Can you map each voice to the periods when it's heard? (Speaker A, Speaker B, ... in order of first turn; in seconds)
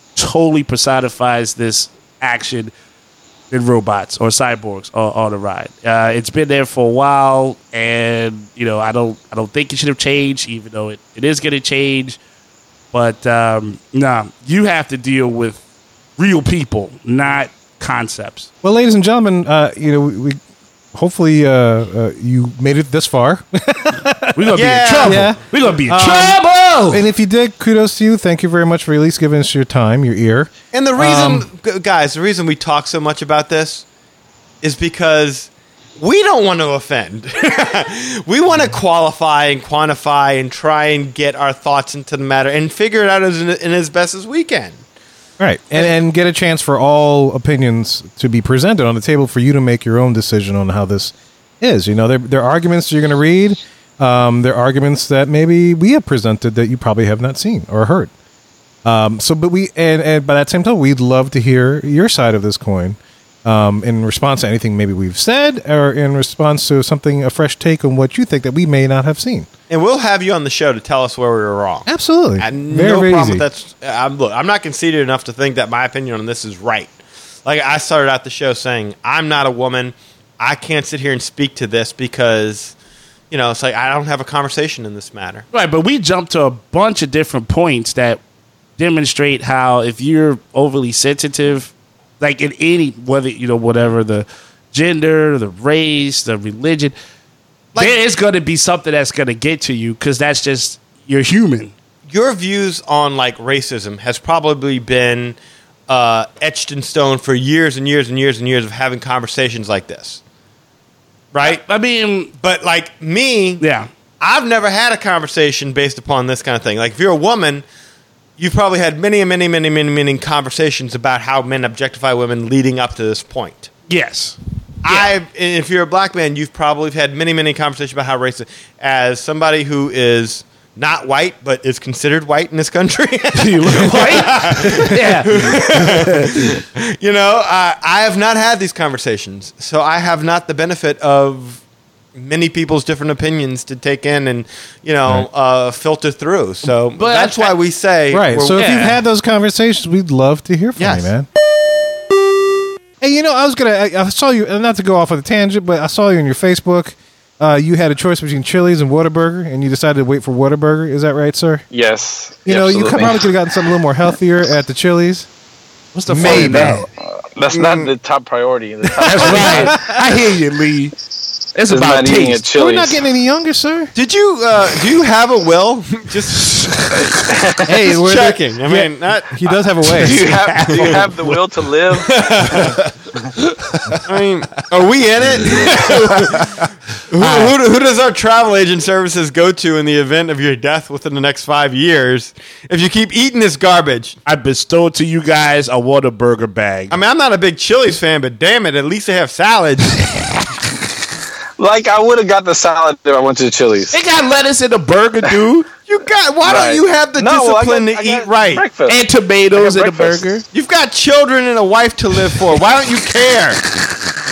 Speaker A: 0.2-2.7, 3.5-12.2, 12.9-15.6, 16.2-18.5, 24.4-27.0, 85.5-88.2, 88.8-97.0, 97.8-101.7, 111.4-112.3, 113.6-113.9, 123.9-125.1, 133.3-136.5, 147.0-147.6, 148.5-149.0, 165.9-166.9, 169.0-170.9, 171.6-172.4, 180.2-181.4, 183.4-184.0, 185.6-186.7, 187.2-187.5, 194.3-197.0, 203.9-205.7, 208.9-210.4
Speaker B: 18.6-20.4, 20.9-31.5, 45.4-58.1, 58.8-69.5, 71.9-73.5, 148.1-151.3, 153.0-161.6, 162.5-165.3, 166.1-166.8, 169.2-169.8, 172.6-173.9, 177.7-180.3
Speaker C: 24.5-25.3, 30.7-33.9, 34.6-44.8, 69.7-77.0, 77.5-82.8, 83.3-85.5, 102.1-105.4, 105.9-110.2, 111.3-111.6, 112.4-113.6, 114.2-117.7, 118.4-123.7, 124.8-141.6, 142.2-148.8, 150.8-151.1, 167.5-167.9, 173.9-176.9, 177.8-179.5, 180.7-181.0, 182.0-182.8, 184.1-194.2, 196.9-200.0, 205.9-208.7, 210.5-213.6
Speaker D: 161.7-163.3, 166.3-166.7, 167.4-169.9, 171.7-173.0, 177.1-177.8, 180.0-182.7, 201.6-203.9, 206.4-209.0, 209.6-210.2